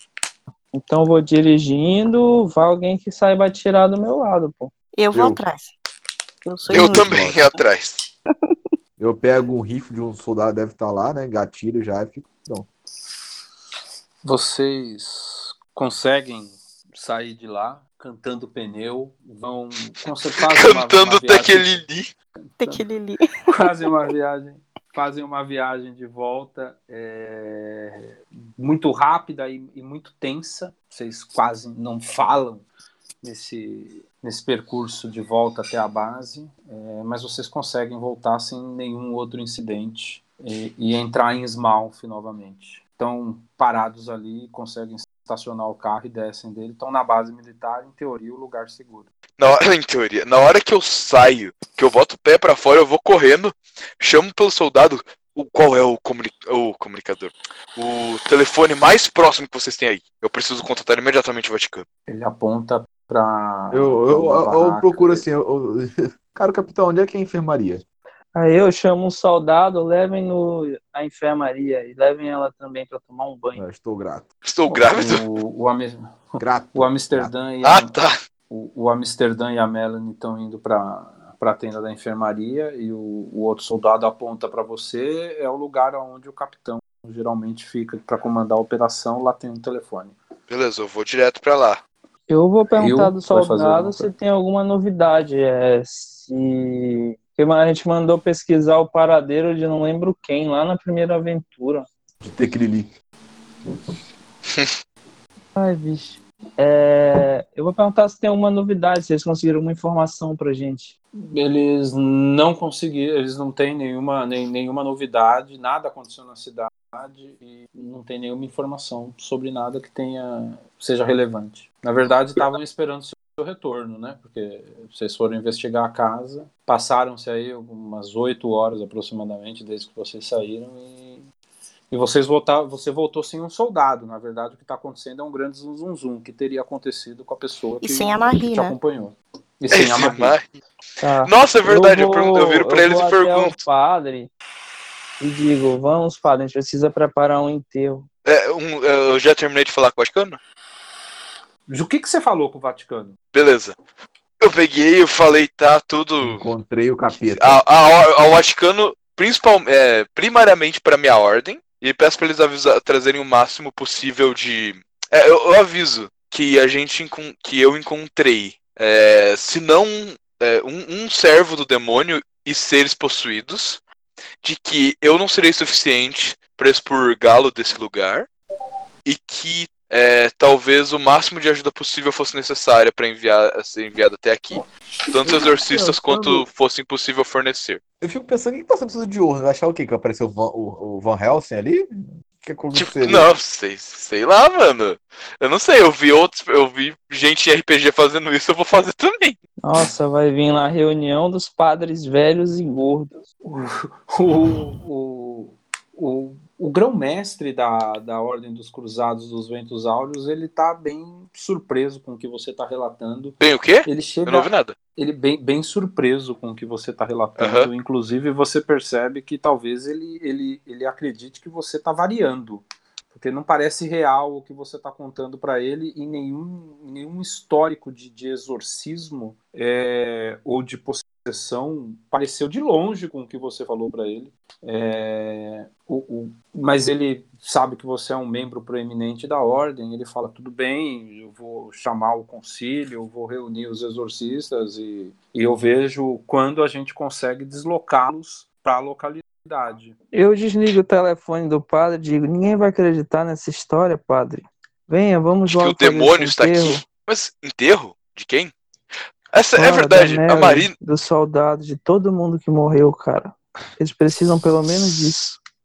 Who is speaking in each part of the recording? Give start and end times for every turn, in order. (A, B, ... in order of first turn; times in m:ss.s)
0:00.7-0:04.7 A
0:05.0-0:05.7 B
0:05.1-0:05.4 C
0:06.4-0:07.4 B
0:06.7-0:08.0 D
0:06.7-0:07.3 C
0:09.0-0:12.7 C
0:14.2-0:21.8 E
0:20.4-0:22.1 D
0:22.6-0:23.5 B
0:23.5-0:32.6 E
0:33.2-0:49.1 E
0:49.4-1:01.8 D
1:02.1-1:05.2 E
1:03.7-1:07.8 C
1:08.4-1:13.6 A
1:13.6-1:14.3 C
1:14.4-1:15.3 D
1:14.7-1:18.0 E
1:16.4-1:17.3 C
1:17.6-1:18.2 D
1:18.5-1:30.2 E
1:30.5-1:31.8 D
1:32.3-1:41.9 A
1:32.8-1:34.1 E
1:42.2-1:42.9 C
1:45.6-1:50.9 A
1:51.2-2:11.3 E
2:11.9-2:20.4 E
2:17.8-2:18.8 B
2:19.7-2:20.5 D
2:21.0-2:24.3 A
2:21.2-2:23.6 D
2:25.2-2:28.1 A
2:28.2-2:30.4 D
2:31.7-2:33.2 E
2:33.3-2:33.8 D
2:34.4-2:36.4 D
2:36.2-2:37.6 C
2:37.3-2:53.8 D
2:54.4-2:58.3 D
2:59.0-3:07.8 D
3:05.2-3:06.4 C
3:08.0-3:13.3 C
3:12.7-3:19.4 D
3:19.6-3:23.2 A
3:23.4-4:09.9 E
3:33.4-3:34.8 D
3:37.4-3:37.7 D
4:10.1-4:16.8 A
4:15.5-4:18.5 D
4:19.3-4:20.7 D
4:19.6-4:25.4 A